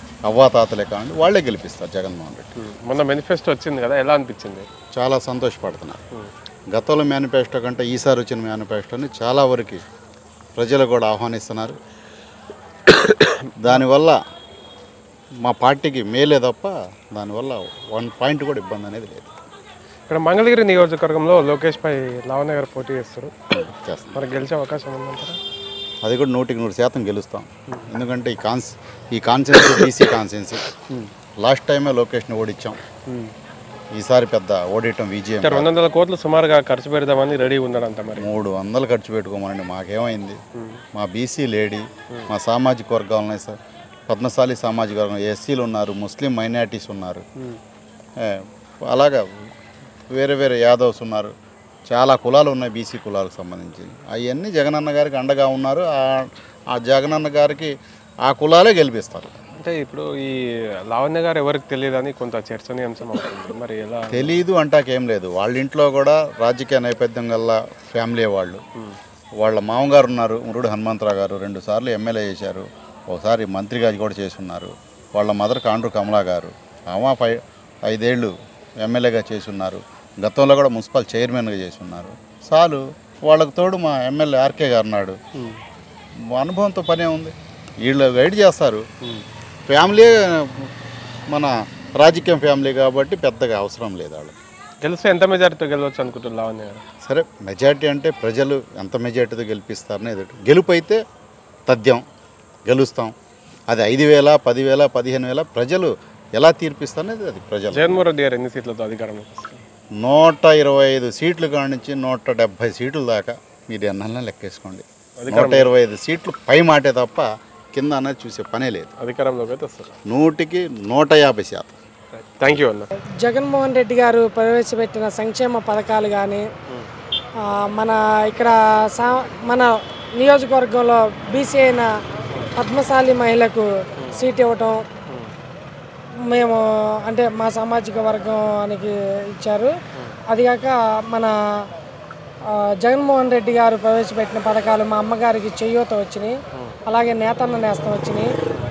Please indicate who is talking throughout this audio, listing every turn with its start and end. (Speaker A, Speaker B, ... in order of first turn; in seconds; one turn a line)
Speaker A: 0.2-2.5
Speaker B: 2.6-4.7
Speaker A: 4.9-6.0
Speaker A: 6.7-9.8
Speaker A: 10.6-11.8
Speaker B: 12.9-13.5
Speaker A: 13.6-14.2
Speaker A: 15.4-19.3
Speaker B: 20.1-23.3
Speaker A: 23.5-24.2
Speaker B: 24.1-25.4
Speaker A: 26.0-30.6
Speaker A: 31.4-32.8
Speaker B: 33.1-33.3
Speaker A: 33.9-35.7
Speaker B: 35.4-38.3
Speaker A: 38.1-40.4
Speaker B: 40.6-40.8
Speaker A: 40.9-47.2
Speaker A: 48.2-49.2
Speaker A: 50.1-51.3
Speaker A: 51.9-57.7
Speaker A: 58.2-59.3
Speaker B: 59.6-64.4
Speaker A: 64.1-68.6
Speaker A: 69.4-85.2
Speaker A: 86.3-88.8
Speaker A: 89.7-90.7
Speaker A: 91.3-94.3
Speaker B: 94.8-96.8
Speaker A: 97.0-101.0
Speaker A: 101.7-102.0
Speaker A: 102.7-103.1
Speaker A: 103.7-108.0
Speaker B: 107.7-109.6
Speaker A: 110.0-118.9
Speaker B: 115.2-115.7
Speaker B: 119.0-119.9
Speaker A: 120.1-121.7
Speaker B: 122.1-122.9
Speaker C: 123.2-126.4
Speaker C: 127.4-129.7
Speaker C: 130.2-131.9
Speaker C: 132.6-134.8
Speaker C: 136.3-139.7
Speaker C: 140.3-141.3
Speaker C: 142.8-146.3
Speaker C: 146.9-148.3